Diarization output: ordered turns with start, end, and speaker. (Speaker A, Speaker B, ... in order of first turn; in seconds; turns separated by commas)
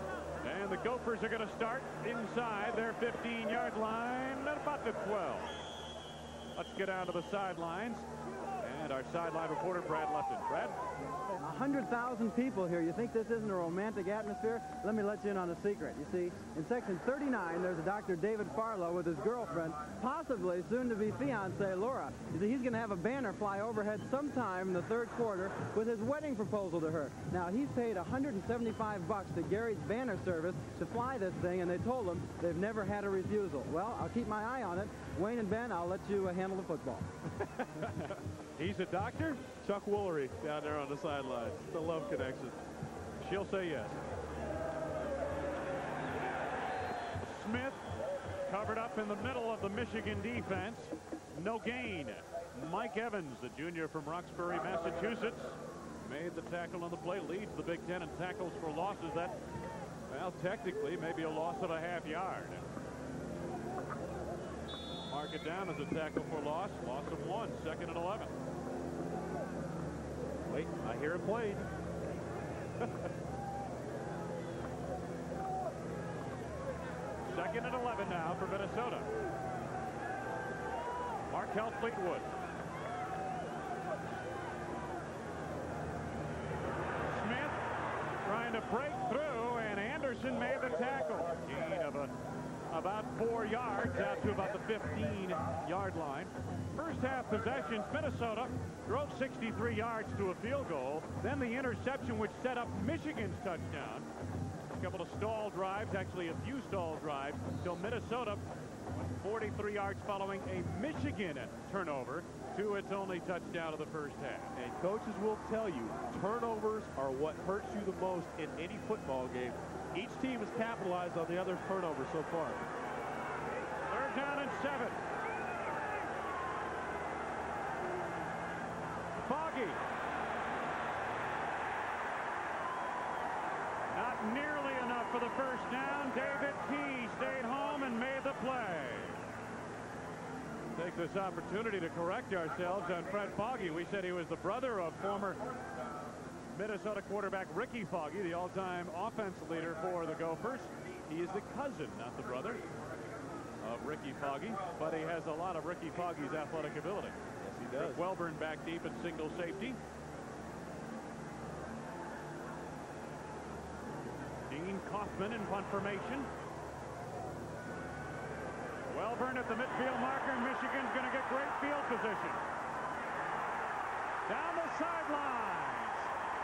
Speaker A: 0.4-5.5, Speaker A: 6.6-8.1, Speaker A: 8.6-10.8, Speaker B: 11.4-37.1, Speaker C: 37.6-37.9, Speaker C: 38.6-42.6, Speaker A: 43.2-44.0, Speaker A: 47.2-47.8, Speaker A: 48.5-59.4, Speaker A: 60.1-62.7, Speaker A: 65.1-68.3, Speaker C: 70.5-71.7, Speaker A: 77.2-79.1, Speaker A: 81.3-82.3, Speaker A: 87.1-87.6, Speaker A: 88.2-92.1, Speaker A: 92.7-104.1, Speaker A: 104.7-114.5, Speaker C: 114.5-122.6, Speaker A: 123.9-125.0, Speaker A: 129.2-129.8, Speaker A: 133.9-139.2, Speaker A: 140.8-145.4, Speaker A: 146.5-152.6, Speaker A: 153.6-157.2, Speaker C: 157.4-158.0, Speaker A: 157.8-159.8, Speaker A: 164.5-166.3, Speaker A: 168.9-172.4, Speaker A: 174.3-176.1